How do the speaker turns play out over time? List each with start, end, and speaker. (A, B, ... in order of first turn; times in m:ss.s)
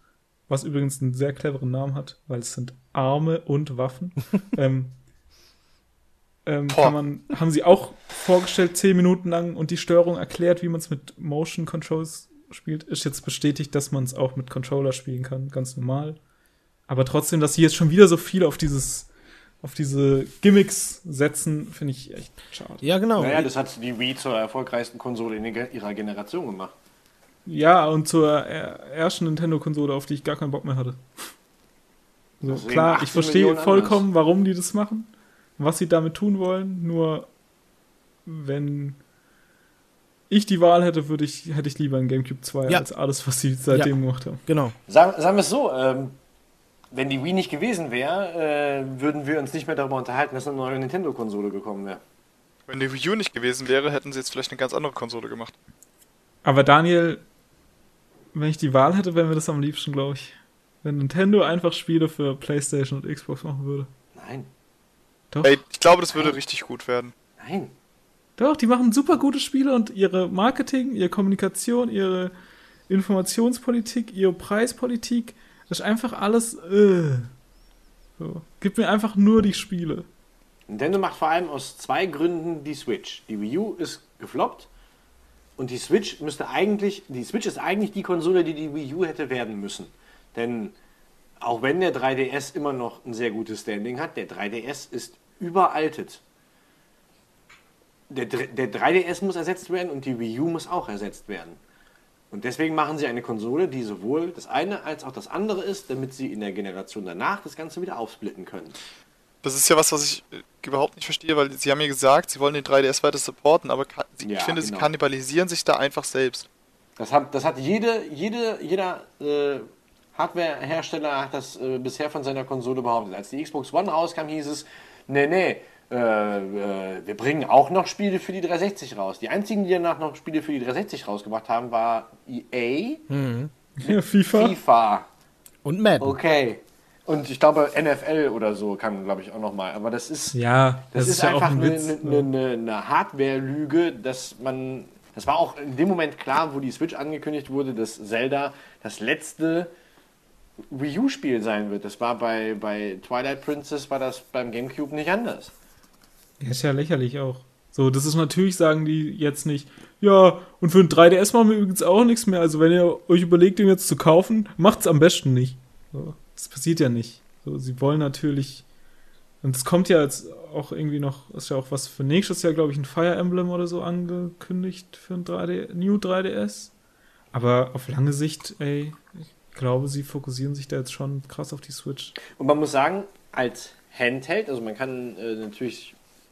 0:00.5-0:05.0 A
0:06.4-0:16.2 A
0:06.7-0:07.0 B
0:16.9-0:19.1 A
0:19.6-0:22.8 A
0:22.8-0:23.5 C
0:23.2-0:26.7 D
0:27.4-0:31.1 A
0:32.4-0:37.3 A
0:32.4-0:34.0 D
0:38.2-0:39.0 A
0:40.3-0:44.4 A
0:44.5-0:44.7 C
0:44.9-0:46.2 D
0:46.9-0:52.0 D
0:52.7-0:55.5 B
0:56.4-0:57.2 A
0:58.3-1:03.9 A
1:04.2-1:04.5 D
1:05.3-1:05.6 A
1:05.4-1:07.1 B
1:07.4-1:07.7 D
1:08.4-1:12.3 A
1:12.9-1:17.3 A
1:18.2-1:20.1 A
1:20.7-1:24.7 D
1:25.6-1:30.7 D
1:31.4-1:36.2 D
1:38.1-1:41.6 D
1:42.3-1:48.8 D
1:49.4-1:56.5 B
1:54.2-1:54.9 D
1:57.0-2:13.0 D
2:13.1-2:13.5 C
2:13.8-2:14.6 A
2:13.8-2:15.1 D
2:15.6-2:16.1 C
2:16.0-2:20.4 D
2:20.3-2:22.2 A
2:20.9-2:29.7 D
2:30.7-2:35.5 D
2:36.4-2:48.6 A
2:49.4-2:56.7 A
2:57.3-3:02.2 A
3:02.3-3:06.0 D